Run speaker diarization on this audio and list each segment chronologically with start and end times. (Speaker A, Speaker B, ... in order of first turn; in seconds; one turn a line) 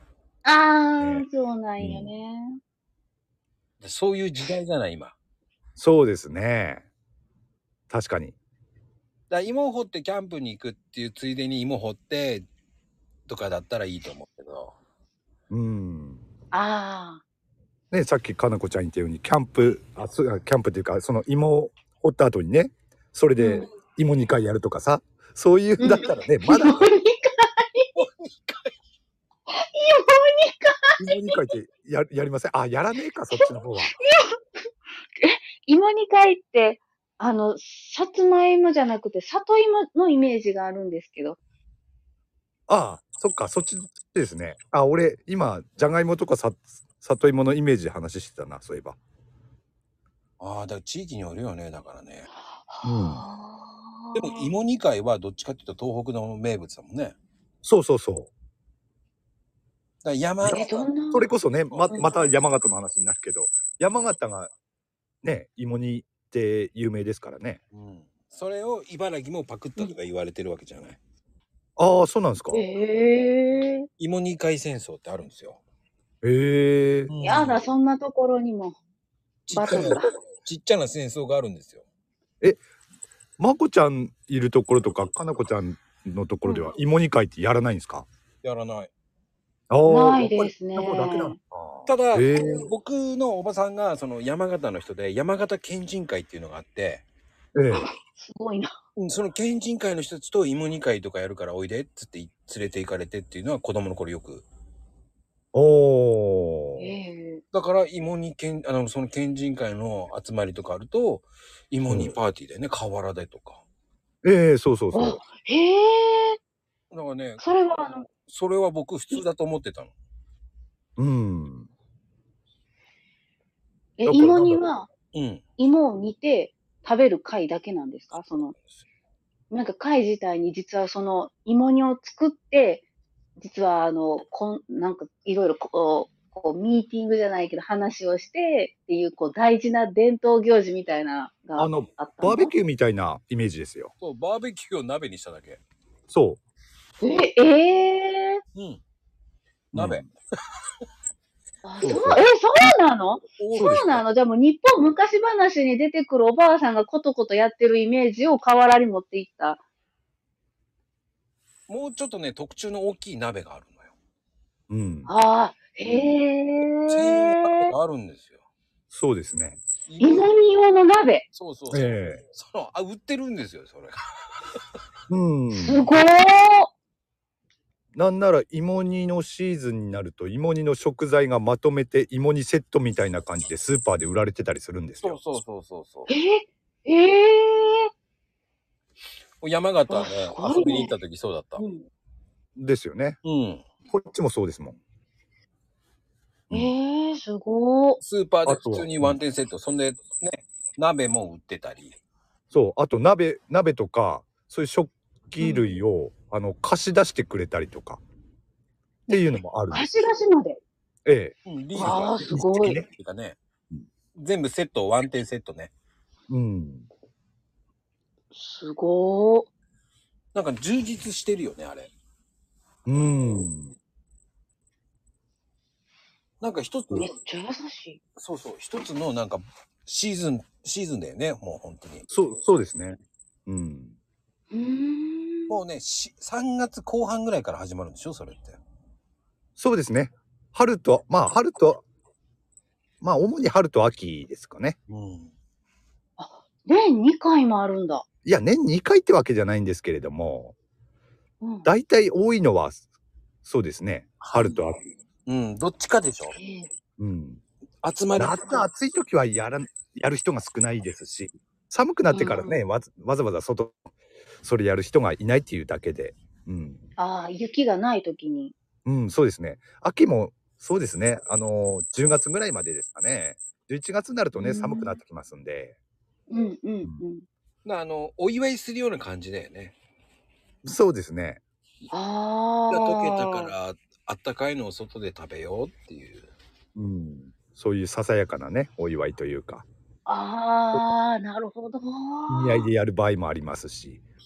Speaker A: 0.4-2.6
Speaker B: 1.0-1.2
Speaker B: 1.8-2.1
Speaker C: 3.8-5.1
Speaker B: 5.8-6.8
Speaker B: 7.9-8.3
Speaker C: 9.3-12.5
Speaker C: 13.3-14.8
Speaker B: 15.5-16.2
Speaker A: 16.5-17.2
Speaker B: 17.9-26.9
Speaker A: 23.4-23.7
Speaker A: 25.8-27.9
Speaker C: 27.9-28.8
Speaker A: 29.5-31.4
Speaker B: 31.0-34.0
Speaker A: 33.4-34.4
Speaker A: 35.2-41.4
Speaker B: 42.7-49.0
Speaker C: 50.4-52.3
Speaker A: 52.5-54.5
Speaker B: 52.8-53.2
Speaker C: 54.1-57.1
Speaker B: 57.6-58.3
Speaker C: 60.0-60.9
Speaker B: 60.4-64.5
Speaker A: 60.5-61.3
Speaker C: 61.7-62.0
Speaker B: 65.2-67.6
Speaker C: 67.7-71.0
Speaker B: 71.8-72.6
Speaker A: 72.5-73.9
Speaker C: 74.0-75.6
Speaker B: 76.2-77.1
Speaker C: 77.1-77.6
Speaker A: 77.2-78.8
Speaker C: 79.5-81.8
Speaker A: 79.5-80.1
Speaker B: 83.4-88.1
Speaker A: 86.4-86.7
Speaker C: 88.4-88.9
Speaker B: 89.7-92.7
Speaker A: 89.8-91.3
Speaker C: 91.9-97.0
Speaker B: 97.5-97.9
Speaker A: 97.7-98.7
Speaker C: 99.0-104.5
Speaker B: 105.5-106.9
Speaker A: 106.8-107.4
Speaker C: 107.5-113.6
Speaker B: 111.9-112.2
Speaker B: 114.2-115.2
Speaker A: 114.9-116.4
Speaker C: 116.9-117.4
Speaker A: 117.4-118.1
Speaker C: 118.2-119.9
Speaker B: 121.0-121.7
Speaker A: 124.0-124.9
Speaker B: 124.1-124.7
Speaker C: 125.1-125.4
Speaker A: 125.6-128.5
Speaker A: 129.5-132.8
Speaker A: 133.4-142.5
Speaker B: 141.6-143.9
Speaker C: 144.0-145.6
Speaker B: 146.1-146.4
Speaker A: 147.0-148.4
Speaker C: 148.5-148.8
Speaker B: 149.7-150.0
Speaker C: 149.7-150.1
Speaker A: 151.6-159.6
Speaker B: 151.8-152.2
Speaker C: 153.4-154.0
Speaker B: 153.5-154.0
Speaker C: 161.7-163.9
Speaker B: 164.7-165.1
Speaker A: 165.1-167.7
Speaker C: 166.9-168.4
Speaker B: 168.9-169.6
Speaker C: 169.9-170.3
Speaker A: 170.0-171.3
Speaker C: 171.3-174.0
Speaker B: 171.7-172.2
Speaker B: 175.1-175.8
Speaker A: 175.5-176.7
Speaker B: 177.9-185.2
Speaker C: 185.0-186.1
Speaker A: 186.1-187.9
Speaker C: 189.4-191.6
Speaker A: 189.9-190.9
Speaker A: 191.6-191.9
Speaker B: 192.6-193.2
Speaker C: 193.2-193.7
Speaker B: 193.9-194.8
Speaker A: 196.5-198.0
Speaker C: 198.0-201.9
Speaker B: 198.4-199.2
Speaker B: 202.5-208.0
Speaker A: 205.4-205.8
Speaker B: 209.1-209.8
Speaker A: 209.1-210.6
Speaker B: 211.1-212.9
Speaker C: 211.4-212.3
Speaker A: 211.8-212.8
Speaker C: 212.8-213.4
Speaker C: 214.1-215.7
Speaker B: 216.3-216.9
Speaker A: 218.3-219.5
Speaker C: 220.3-221.9
Speaker B: 222.8-223.7
Speaker C: 226.4-227.1
Speaker A: 226.9-228.0
Speaker C: 228.2-232.1
Speaker B: 232.1-233.9
Speaker A: 234.5-235.6
Speaker C: 235.5-238.6
Speaker B: 239.6-241.8
Speaker B: 243.0-244.8
Speaker C: 244.9-245.3
Speaker A: 246.2-248.1
Speaker B: 248.2-250.5
Speaker A: 251.4-251.7
Speaker B: 251.7-252.8
Speaker B: 253.4-254.8
Speaker C: 254.2-254.6
Speaker C: 255.2-256.4
Speaker A: 256.4-256.7
Speaker B: 257.0-257.4
Speaker C: 257.8-258.6
Speaker B: 258.1-263.9
Speaker A: 262.1-262.6
Speaker B: 264.4-266.8
Speaker A: 267.0-268.5
Speaker B: 268.8-275.8
Speaker A: 274.3-275.0
Speaker A: 276.3-277.2
Speaker C: 277.6-279.8
Speaker B: 280.6-281.4
Speaker A: 281.9-283.5
Speaker C: 282.7-286.3
Speaker B: 286.7-289.6
Speaker A: 290.1-292.7
Speaker B: 292.3-294.0